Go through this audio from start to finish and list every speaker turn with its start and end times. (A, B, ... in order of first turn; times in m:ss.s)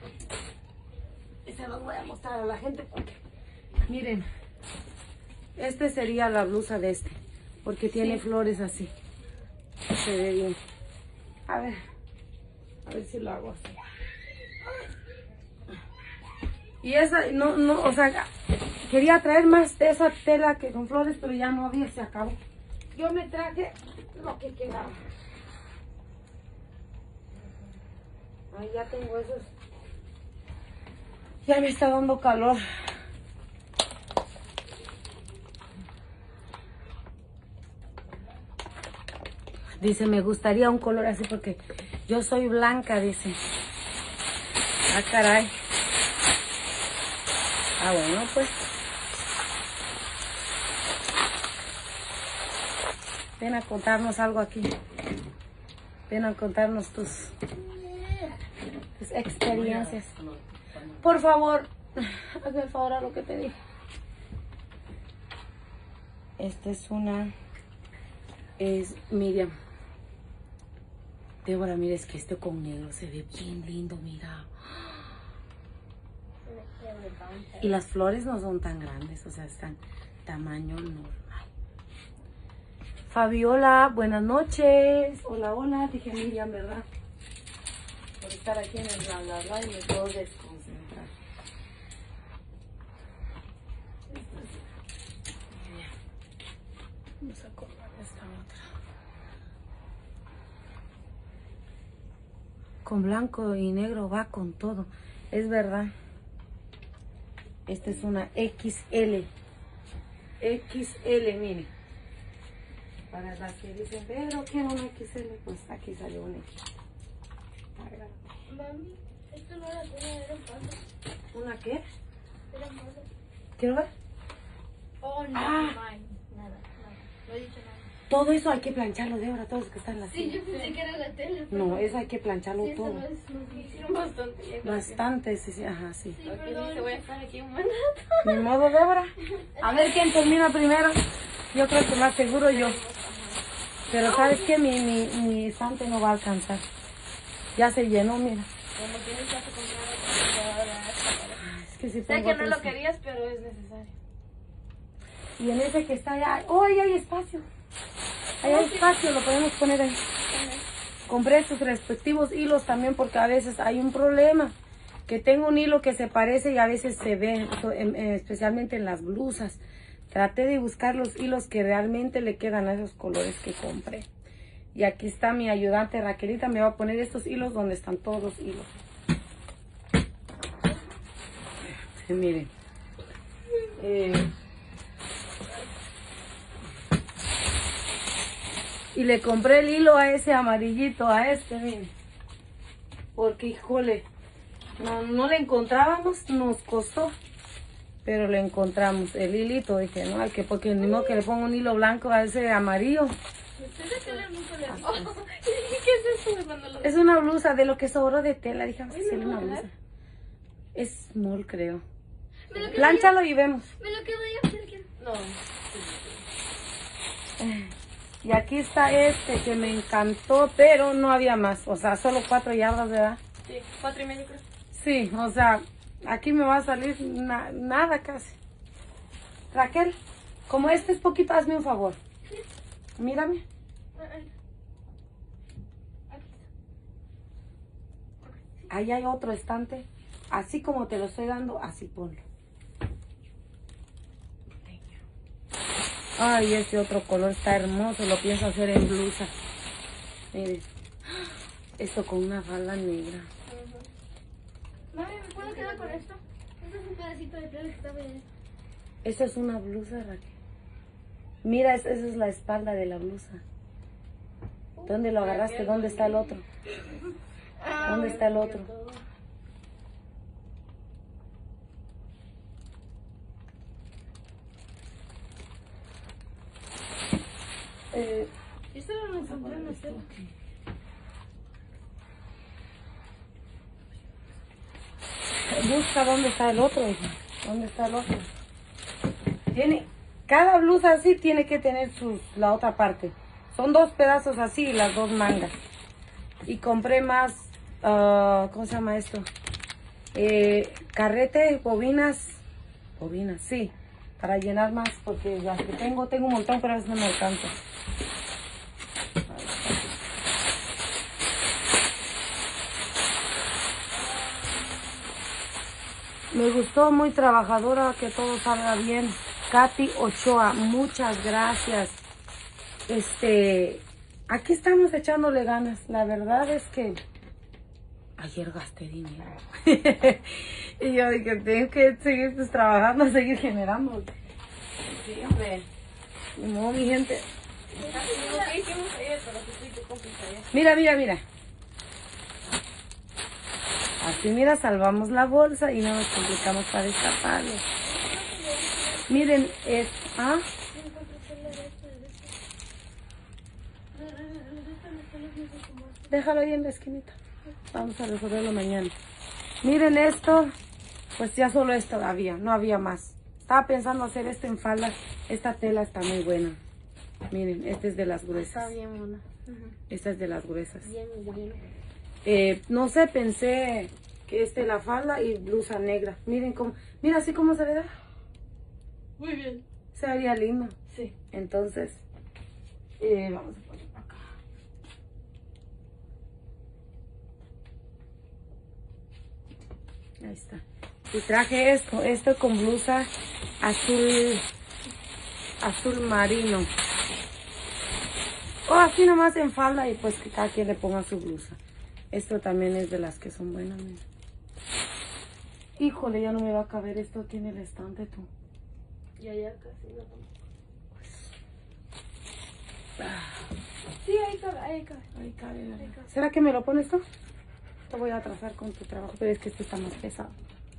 0:01.4-0:03.2 A
0:03.9-0:04.3 A
0:05.6-0:08.9 A
0:07.9-0:08.2 B
0:09.9-0:10.6 A
0:11.5-0:11.8 A
0:12.9-0:13.8 A
0:16.8-0:18.3 A
0:18.8-0:22.4 A
0:22.9-0:25.0 A
0:28.5-0:29.5 A
0:31.4-0:32.6 A
0:39.8-0:43.4 A
0:44.9-0:45.5 A
0:47.8-0:48.6 A
0:53.4-0:54.7 A
0:56.1-0:57.6 A
0:59.0-1:00.3 A
1:01.0-1:03.6 A
1:06.4-1:07.3 A
1:08.6-1:09.6 A
1:11.4-1:14.5 A
1:16.5-1:17.6 C
1:17.3-1:17.7 B
1:17.6-1:21.5 A
1:23.1-1:26.9 A
1:28.2-1:31.1 A
1:34.1-1:34.6 A
1:35.6-1:35.9 A
1:37.2-1:38.7 A
1:42.8-1:45.9 A
1:47.7-1:49.3 A
1:50.4-1:51.7 A
1:53.1-1:56.5 A
1:57.8-1:58.2 A
1:58.5-2:00.8 C
2:01.3-2:01.8 A
2:02.5-2:03.1 C
2:03.6-2:03.9 A
2:05.0-2:07.9 C
2:05.3-2:05.8 A
2:08.1-2:10.4 A
2:10.1-2:12.0 C
2:10.4-2:10.8 B
2:11.5-2:13.0 A
2:12.6-2:14.0 C
2:13.5-2:15.0 B
2:14.6-2:16.2 A
2:16.2-2:17.0 C
2:16.2-2:18.5 B
2:18.2-2:22.8 A
2:19.6-2:20.3 C
2:22.5-2:23.4 B
2:23.9-2:26.6 A
2:24.1-2:24.3 C
2:24.2-2:24.4 B
2:27.6-2:28.5 A
2:28.8-2:31.4 B
2:31.4-2:32.8 A
2:32.1-2:34.0 B
2:35.4-2:37.5 A
2:38.4-2:40.0 A
2:38.4-2:39.0 B
2:40.2-2:40.7 B
2:41.1-2:44.6 A
2:45.1-2:54.1 A
2:54.8-2:58.7 A
3:01.8-3:02.5 A
3:03.8-3:04.3 A
3:08.9-3:11.9 A
3:13.2-3:14.1 A
3:14.8-3:17.1 A
3:18.0-3:23.2 A
3:23.6-3:27.0 B
3:23.8-3:24.9 C
3:24.7-3:25.1 A
3:26.8-3:29.7 A
3:28.9-3:29.7 B
3:30.8-3:31.8 A
3:32.5-3:33.2 C
3:32.5-3:33.0 B
3:32.7-3:33.7 A
3:33.8-3:34.9 C
3:35.0-3:36.2 B
3:37.4-3:43.2 A
3:43.4-3:44.4 B
3:44.7-3:48.4 A
3:49.5-3:50.0 A
3:50.5-3:52.0 A
3:53.0-3:53.4 A
3:54.0-3:54.3 C
3:56.1-3:56.4 C
3:58.7-4:02.2 A
4:06.2-4:09.3 A
4:10.3-4:10.7 A
4:11.8-4:13.3 A
4:13.5-4:13.9 B
4:14.9-4:18.3 C
4:15.2-4:16.2 B
4:19.0-4:20.3 A
4:21.4-4:23.4 A
4:24.8-4:26.4 B
4:24.9-4:26.4 A
4:27.6-4:28.3 C
4:27.6-4:29.0 B
4:27.8-4:28.7 A
4:37.9-4:38.3 A
4:38.7-4:40.1 B
4:39.2-4:40.3 A
4:45.5-4:48.3 A
4:49.5-4:55.6 A
4:56.5-4:59.3 A
5:00.1-5:02.4 A
5:03.0-5:07.6 A
5:09.3-5:09.9 A
5:16.3-5:22.0 A
5:22.9-5:27.0 A
5:28.2-5:34.1 A
5:34.9-5:35.7 A
5:36.4-5:37.3 A
5:37.7-5:40.5 B
5:37.8-5:38.6 C
5:40.5-5:41.2 A
5:44.0-5:47.6 A
5:47.8-5:49.4 C
5:49.1-5:50.5 A
5:50.7-5:52.3 C
5:53.9-5:56.1 C
5:56.1-5:57.2 A
5:57.7-5:58.9 A
5:59.6-6:00.5 A
6:01.2-6:06.6 A
6:07.3-6:08.7 A
6:08.3-6:09.7 B
6:09.9-6:10.9 A
6:10.8-6:11.6 B
6:12.2-6:17.9 A
6:19.2-6:19.6 B
6:19.9-6:20.8 A
6:20.9-6:21.2 B
6:21.3-6:22.0 A
6:23.0-6:24.2 A
6:30.2-6:33.1 A
6:33.6-6:34.4 A
6:35.6-6:36.7 A
6:38.7-6:41.6 A
6:42.1-6:44.0 A
6:45.8-6:48.3 A
6:49.2-6:50.3 B
6:53.0-6:53.4 A
6:54.0-6:55.1 B
6:55.2-6:57.0 A
6:55.8-6:56.0 B
6:57.9-7:00.3 A